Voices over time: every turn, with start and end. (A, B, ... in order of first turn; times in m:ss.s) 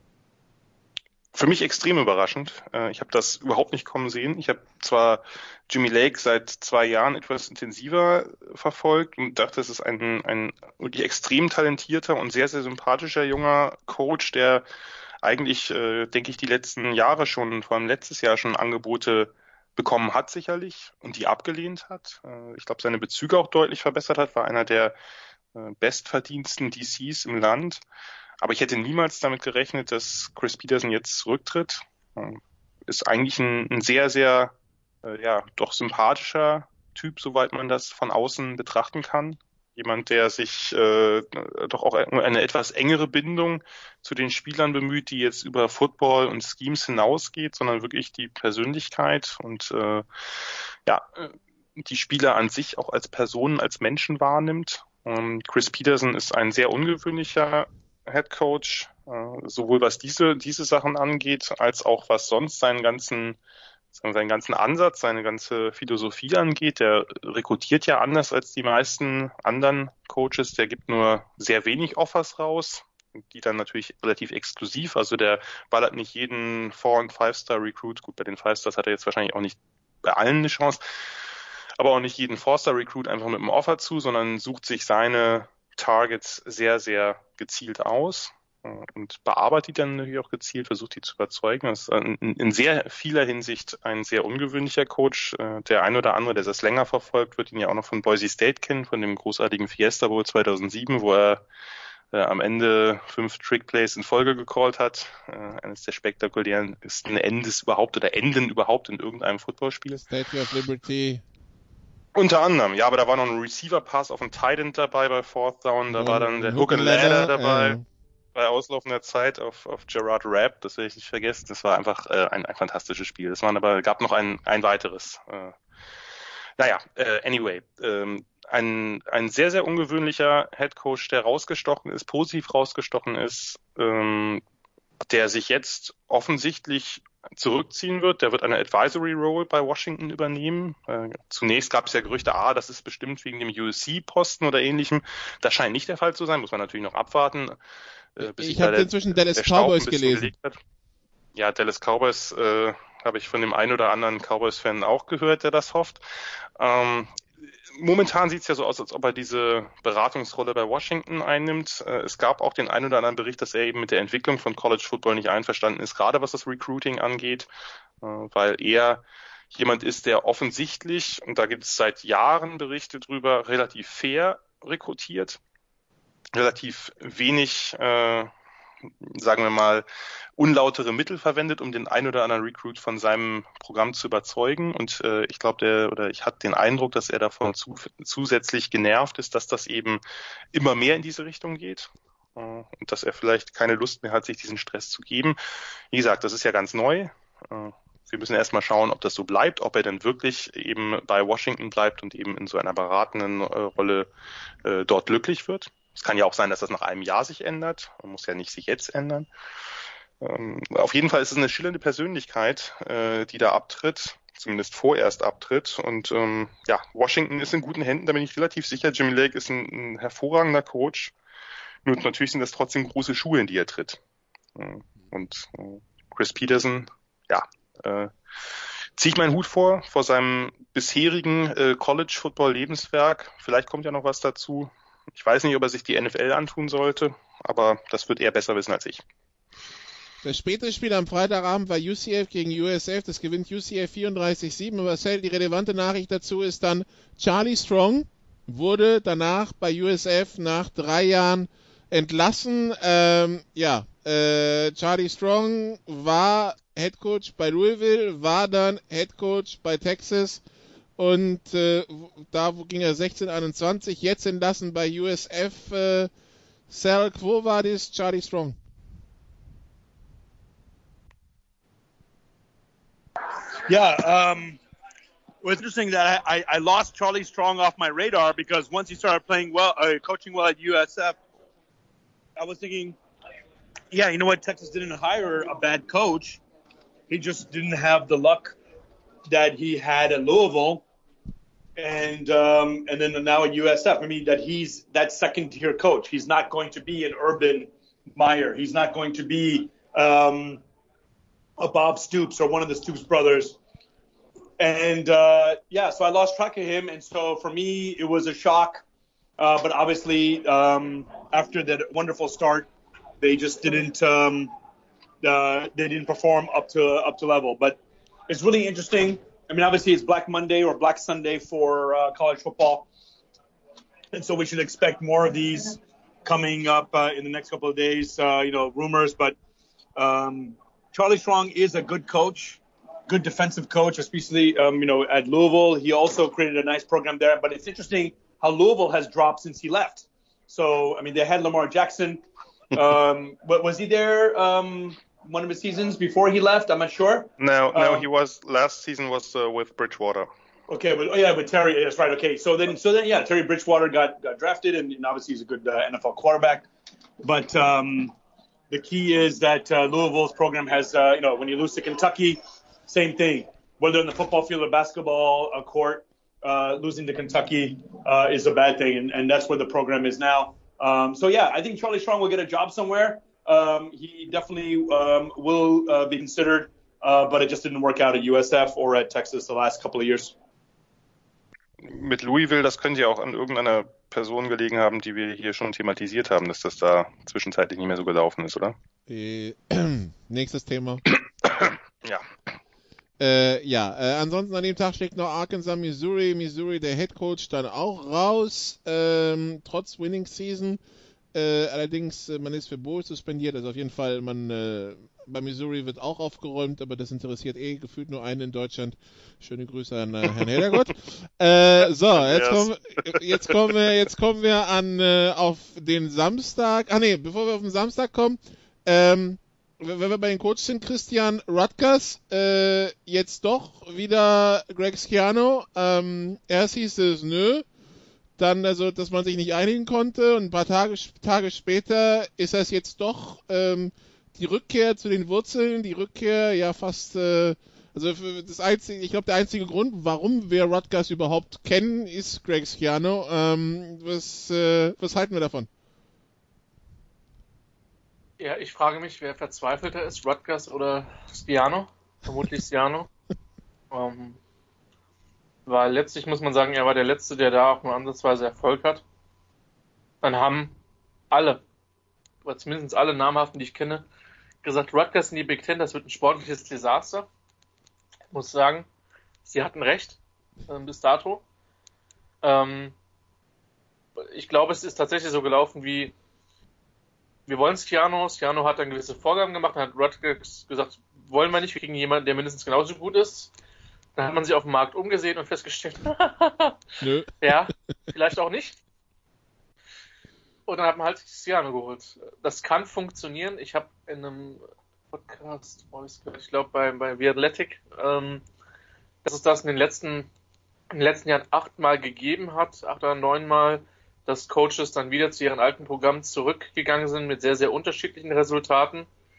0:01.3-0:14.6 A
0:15.2-0:24.9 A
0:25.5-0:27.8 A
0:28.4-1:03.4 A
1:04.0-1:20.8 A
1:21.8-1:41.4 A
1:42.1-1:50.0 A
1:50.0-1:51.2 B
1:52.1-1:57.8 A
1:55.9-1:57.8 B
1:58.3-2:05.5 A
2:06.6-2:14.4 A
2:15.0-2:27.6 A
2:28.2-2:30.6 A
2:28.2-2:30.3 B
2:31.3-2:36.0 A
2:36.6-2:37.1 A
2:37.8-2:47.5 A
2:48.0-2:55.4 A
2:56.3-2:58.3 A
2:59.0-2:59.8 A
3:00.4-3:10.0 A
3:10.5-3:15.4 A
3:15.9-3:24.1 A
3:24.6-3:29.3 A
3:30.2-3:41.1 A
3:41.8-3:44.0 A
3:44.6-3:48.1 A
3:49.0-3:59.0 A
4:00.2-4:20.4 B
4:21.0-4:26.1 B
4:26.7-4:28.6 B
4:33.7-4:34.6 C
4:35.4-4:41.2 C
4:42.4-4:43.0 C
4:43.9-4:46.4 C
4:47.1-4:48.6 C
4:49.3-4:50.8 C
4:51.8-5:00.6 C
5:01.6-5:03.6 C
5:04.6-5:08.8 C
5:09.4-5:12.7 C
5:13.2-5:14.5 C
5:15.2-5:22.9 C
5:24.1-5:29.4 C
5:30.0-5:48.1 C
5:47.4-5:50.3 A
5:50.7-5:56.6 C
5:57.2-5:58.1 C
5:58.7-6:20.3 C
6:21.8-6:28.8 A
6:29.1-6:31.0 B
6:31.4-6:32.2 A
6:33.2-6:40.8 B
6:41.3-7:07.6 B
6:52.2-6:52.7 A
7:08.4-7:25.7 B
7:28.4-7:33.1 D
7:33.9-7:34.4 D
7:35.6-7:39.0 D
7:40.2-7:40.7 D
7:41.3-7:41.6 D
7:42.4-7:44.0 D
7:44.6-7:47.3 D
7:48.3-7:48.9 D
7:49.4-7:51.4 D
7:52.4-7:52.9 D
7:54.3-7:56.1 D
7:57.5-8:03.5 D
8:04.2-8:06.8 D
8:07.0-8:07.3 B
8:07.4-8:08.8 D
8:10.6-8:18.4 D
8:19.2-8:20.3 D
8:20.9-8:29.1 D